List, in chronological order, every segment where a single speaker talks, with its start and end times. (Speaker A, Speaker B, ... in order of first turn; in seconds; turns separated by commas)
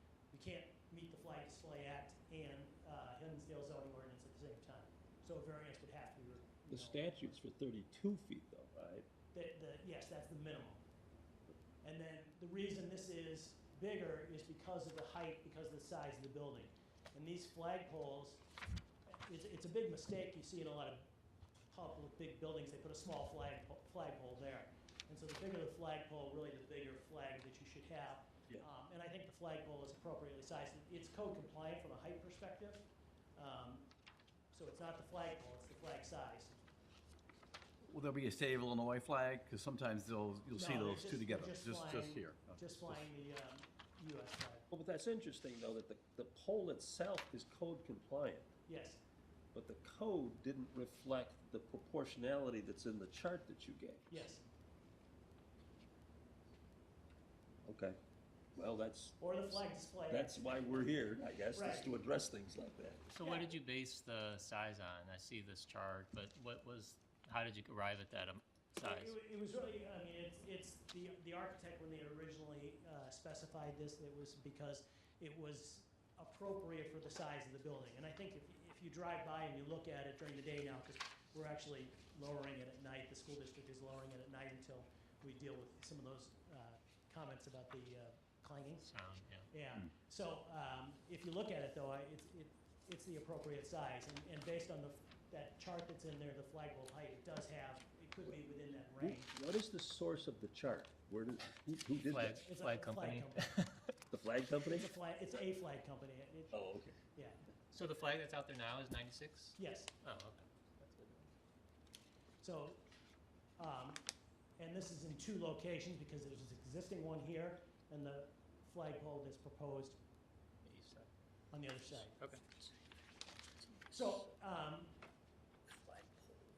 Speaker A: 0.3-7.4, Speaker B: 6.7-9.1, Speaker A: 9.3-10.8, Speaker A: 11.8-18.4, Speaker A: 19.1-21.1, Speaker A: 21.7-33.9, Speaker A: 34.5-36.5, Speaker C: 37.9-43.0, Speaker A: 40.5-44.7, Speaker B: 44.7-48.5, Speaker A: 48.7-49.0, Speaker B: 49.5-54.3, Speaker A: 54.1-54.5, Speaker B: 57.6-58.0, Speaker B: 58.5-59.3, Speaker A: 59.2-61.9, Speaker B: 60.1-63.0, Speaker D: 63.1-69.2, Speaker A: 68.8-88.9, Speaker D: 88.8-89.5, Speaker A: 89.5-99.3, Speaker B: 99.0-102.4, Speaker D: 102.1-103.9, Speaker A: 102.4-103.5, Speaker B: 104.1-104.9, Speaker A: 104.6-106.6, Speaker B: 106.5-107.0, Speaker A: 107.1-107.4, Speaker D: 107.7-111.3, Speaker A: 109.6-109.9, Speaker A: 112.4-112.8, Speaker A: 113.6-114.1, Speaker A: 114.6-120.0, Speaker D: 120.6-121.1, Speaker A: 121.5-122.2, Speaker D: 122.1-122.7, Speaker A: 123.9-124.9